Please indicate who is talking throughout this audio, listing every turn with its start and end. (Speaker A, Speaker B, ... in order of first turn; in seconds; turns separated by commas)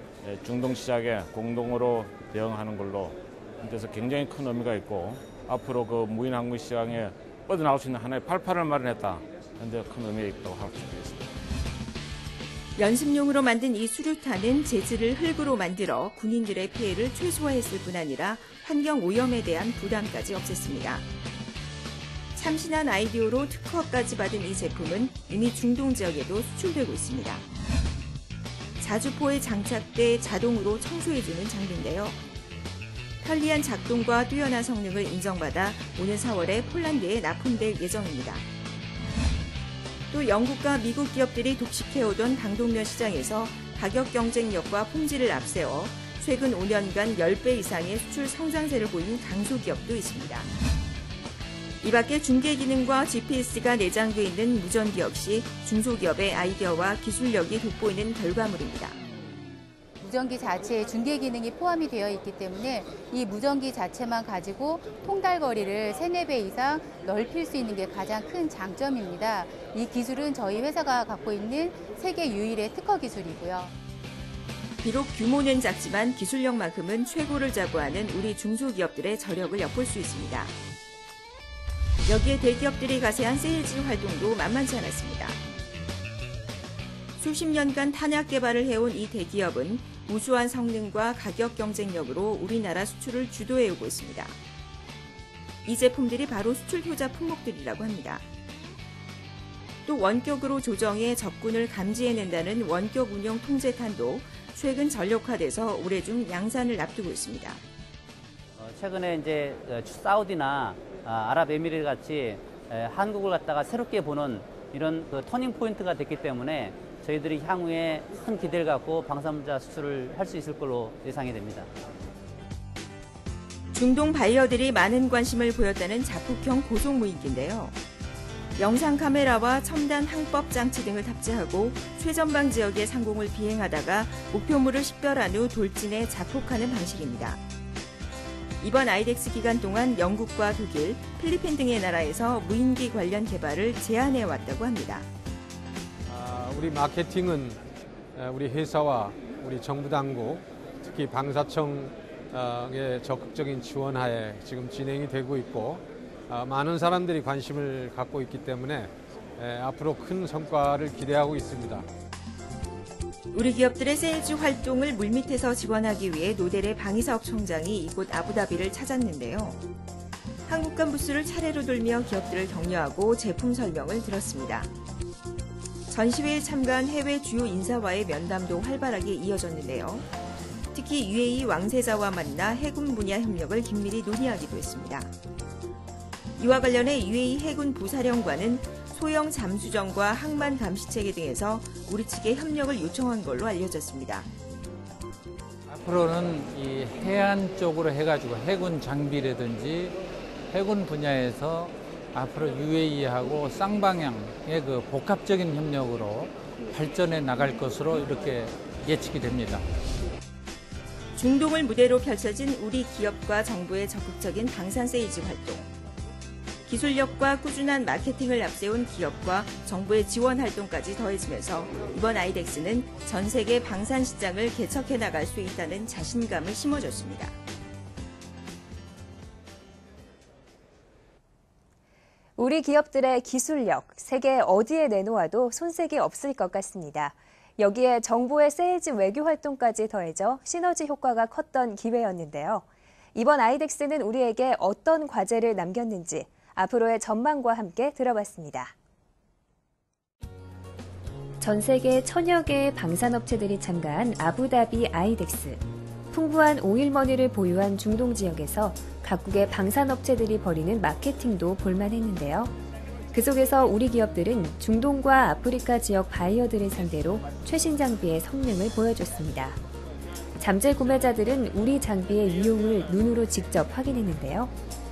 Speaker A: 0.2-11.3, Speaker B: 12.8-21.0, Speaker B: 22.3-27.4, Speaker B: 28.8-32.2, Speaker B: 33.2-38.4, Speaker B: 40.1-50.5, Speaker B: 51.8-59.0, Speaker C: 60.0-73.7, Speaker B: 74.8-80.5, Speaker B: 82.1-85.4, Speaker B: 87.2-94.3, Speaker B: 95.6-98.2, Speaker B: 99.8-107.6, Speaker D: 108.6-121.7, Speaker B: 123.7-127.8, Speaker B: 128.6-137.4, Speaker B: 138.6-145.1, Speaker E: 146.1-147.6, Speaker E: 148.1-161.8, Speaker B: 163.3-169.6, Speaker B: 170.5-174.7, Speaker B: 175.9-180.1, Speaker B: 180.7-185.1, Speaker B: 186.4-194.3, Speaker F: 195.7-200.0, Speaker F: 200.5-209.6, Speaker B: 211.2-215.7, Speaker B: 216.7-227.3, Speaker G: 232.4-248.7, Speaker G: 251.4-262.6, Speaker G: 263.1-269.6, Speaker G: 270.4-274.5